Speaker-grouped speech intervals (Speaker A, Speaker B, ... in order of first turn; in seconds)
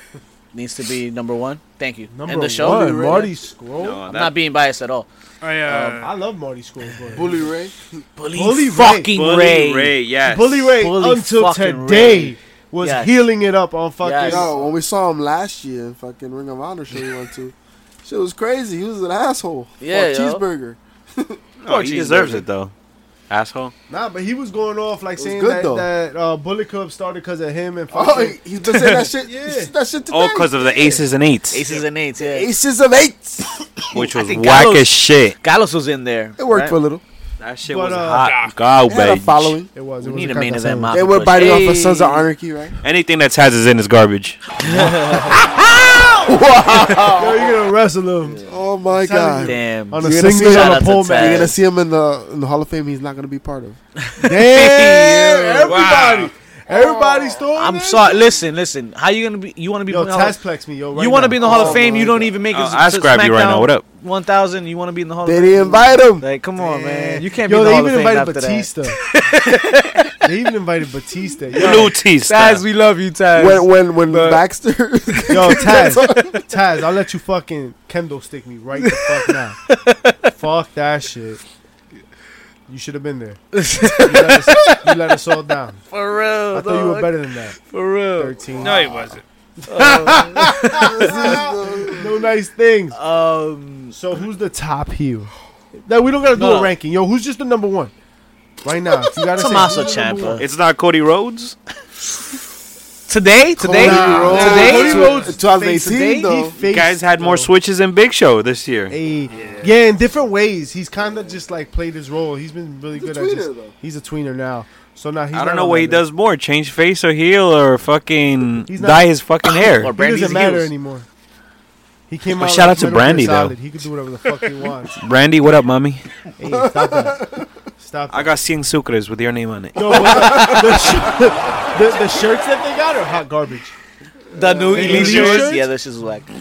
Speaker A: 0.5-3.0, 4.1-5.1, 5.7-6.0, 8.2-10.0, 10.8-13.2, 14.0-14.5, 19.8-20.4, 21.8-22.3, 31.5-32.5, 34.0-36.8, 40.0-42.3, 44.6-46.1, 49.4-51.5, 54.0-55.6, 57.5-60.4, 60.9-70.2, 71.6-74.4, 75.1-76.4, 78.8-80.3, 83.5-85.0, 85.9-88.3, 89.7-91.9, 92.9-94.0, 96.3-96.7, 99.3-100.5, 103.1-105.3, 119.5-120.7, 134.3-136.3
Speaker B: 2.1-4.0, 6.0-7.5, 8.3-9.1, 10.2-14.8, 21.7-22.4, 23.9-29.7, 30.8-31.1, 37.7-38.4, 39.7-41.0, 44.6-46.0, 47.0-51.5, 54.2-58.4, 59.9-62.1, 66.6-69.0, 70.2-71.9, 75.3-79.6, 80.3-81.4, 82.7-85.8, 86.5-87.6, 88.2-89.2, 89.7-93.0, 93.9-95.3, 95.9-97.9, 98.6-100.4, 103.6-107.5, 108.9-116.0, 118.7-119.1, 119.9-121.1, 122.1-125.0, 126.4-127.2, 127.8-128.4, 129.8-133.7, 134.7-135.7
Speaker C: 2.6-3.4, 7.1-7.8, 14.2-21.4, 25.2-25.9, 27.9-31.0, 32.2-34.0, 36.4-37.0, 38.9-39.7, 40.9-42.8, 45.4-47.5, 48.4-53.8, 56.7-57.4, 61.4-62.4, 65.2-66.2, 73.3-76.4, 88.4-88.9, 90.8-92.2, 103.6-106.6, 113.0-113.7, 126.5-127.5, 129.8-131.2, 134.3-135.4
Speaker D: 3.8-4.4, 9.1-10.7, 21.6-22.7, 23.3-23.7, 30.1-31.6, 33.9-35.4, 37.4-39.6, 42.8-44.4, 62.5-63.8, 71.5-72.6, 100.4-101.6, 106.7-109.0, 115.3-120.0, 122.3-123.6, 125.0-126.0, 128.1-130.8
Speaker E: 5.4-6.1, 38.1-38.6, 55.7-56.3, 88.6-89.2, 109.3-109.7